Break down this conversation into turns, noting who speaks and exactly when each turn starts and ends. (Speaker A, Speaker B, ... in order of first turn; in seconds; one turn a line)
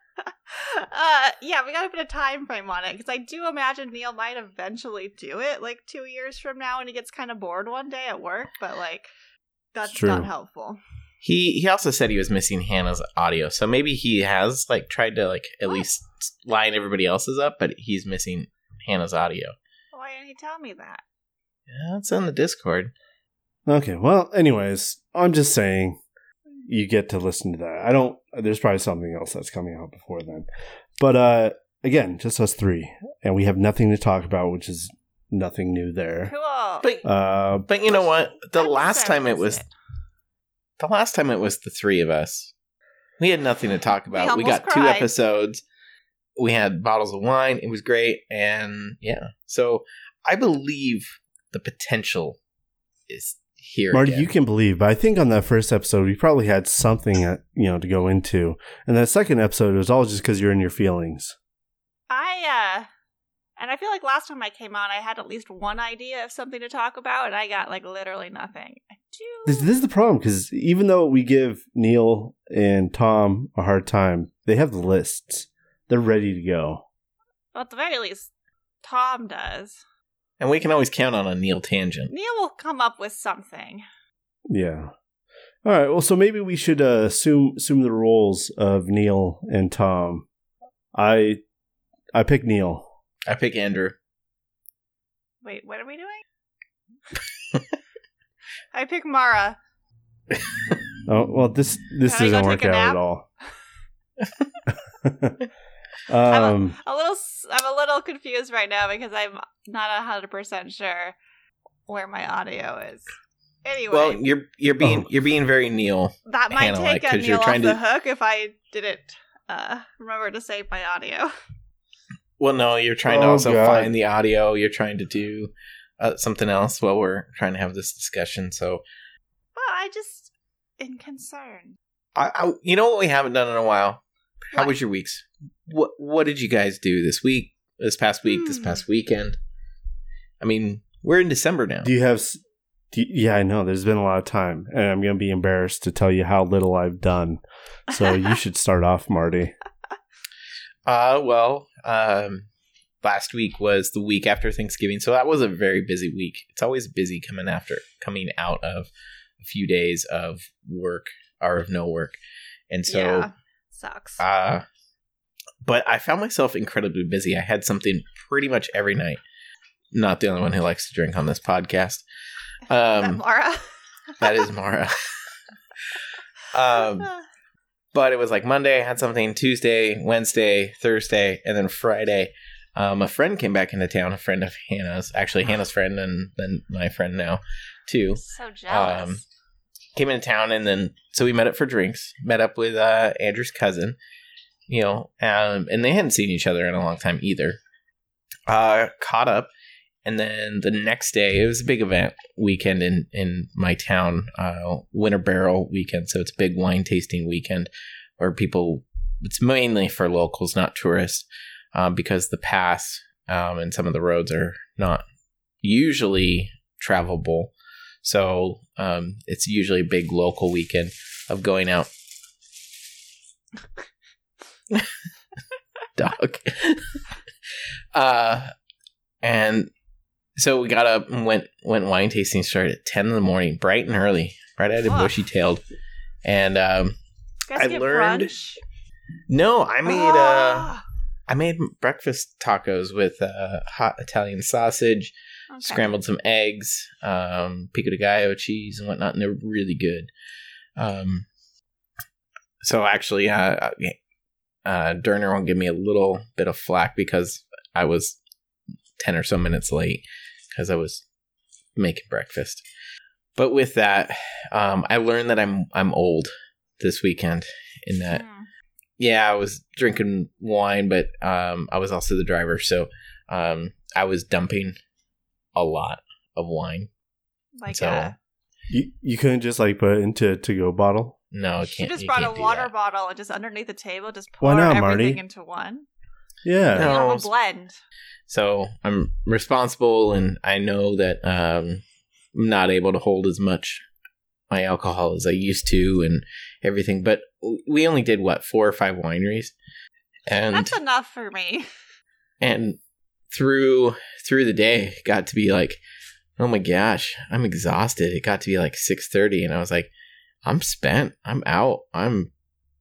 Speaker A: 0.2-9.1
Speaker A: 9.7-10.8
Speaker B: 9.9-10.3
Speaker C: 11.2-19.5
Speaker A: 19.9-21.0
Speaker C: 21.7-22.9
Speaker B: 23.6-26.0
Speaker B: 26.6-30.5
Speaker B: 31.0-36.3
Speaker A: 36.3-36.9
Speaker B: 37.0-37.7
Speaker C: 37.7-39.6
Speaker A: 38.0-39.7
Speaker C: 40.8-42.5
Speaker C: 43.2-45.6
Speaker A: 44.1-45.1
Speaker C: 46.4-52.4
Speaker C: 53.1-54.3
Speaker B: 53.9-61.4
Speaker A: 62.1-62.9
Speaker A: 63.6-69.7
Speaker B: 69.5-76.8
Speaker A: 77.5-78.3
Speaker A: 78.8-79.8
Speaker C: 80.4-82.1
Speaker A: 82.1-83.8
Speaker B: 84.5-84.9
Speaker B: 85.6-90.2
Speaker B: 90.9-91.4
Speaker B: 92.1-92.9
Speaker C: 93.3-94.0
Speaker A: 95.4-96.2
Speaker A: 98.7-99.6
Speaker B: 101.1-103.2
Speaker A: 102.0-103.0
Speaker B: 105.0-105.5
Speaker B: 106.1-106.8
Speaker A: 106.3-111.2
Speaker A: 111.9-113.1
Speaker A: 113.6-114.2
Speaker C: 113.9-117.8
Speaker B: 114.8-115.1
Speaker A: 116.3-121.3
Speaker C: 122.4-128.8
Speaker B: 123.0-123.9
Speaker A: 129.6-131.8
Speaker C: 132.1-139.4
Speaker A: 138.3-138.8
Speaker C: 140.4-141.9
Speaker B: 141.8-142.4
Speaker B: 142.9-149.5
Speaker C: 150.8-152.5
Speaker C: 153.0-158.9
Speaker C: 159.4-162.2
Speaker C: 162.7-163.3
Speaker A: 162.9-164.2
Speaker C: 164.2-164.6
Speaker C: 165.6-169.2
Speaker C: 169.9-172.0
Speaker A: 172.7-174.4
Speaker C: 172.7-173.2
Speaker C: 174.2-174.9
Speaker C: 176.5-177.1
Speaker A: 176.8-177.2
Speaker C: 177.9-189.2
Speaker A: 188.2-189.2
Speaker C: 189.9-194.0
Speaker C: 194.7-197.6
Speaker C: 198.5-199.5
Speaker C: 200.0-215.0
Speaker C: 215.6-221.9
Speaker C: 226.0-227.0
Speaker C: 227.9-228.5
Speaker C: 229.2-229.7
Speaker C: 230.4-235.6
Speaker A: 234.9-235.1
Speaker C: 236.2-236.9
Speaker A: 237.5-238.6
Speaker C: 237.5-238.3
Speaker C: 239.3-240.7
Speaker A: 239.8-240.8
Speaker C: 241.3-245.1
Speaker A: 245.5-245.9
Speaker C: 245.6-250.1
Speaker C: 250.8-251.3
Speaker C: 252.6-254.0
Speaker C: 254.6-258.2
Speaker C: 259.0-261.0
Speaker C: 261.8-262.6
Speaker C: 263.4-268.2
Speaker A: 268.1-268.5
Speaker C: 269.0-274.8
Speaker C: 275.5-276.9
Speaker A: 277.6-278.1
Speaker C: 277.7-278.1
Speaker B: 278.7-281.2
Speaker C: 281.3-282.7
Speaker A: 281.6-285.9
Speaker B: 284.4-285.2
Speaker B: 286.4-286.9
Speaker A: 286.7-287.8
Speaker C: 286.7-287.3
Speaker C: 288.3-291.8
Speaker C: 292.3-293.8
Speaker C: 294.5-299.5
Speaker C: 300.3-300.7
Speaker A: 300.5-301.6
Speaker C: 302.4-302.8
Speaker C: 303.3-305.8
Speaker C: 306.4-309.9
Speaker C: 310.4-312.3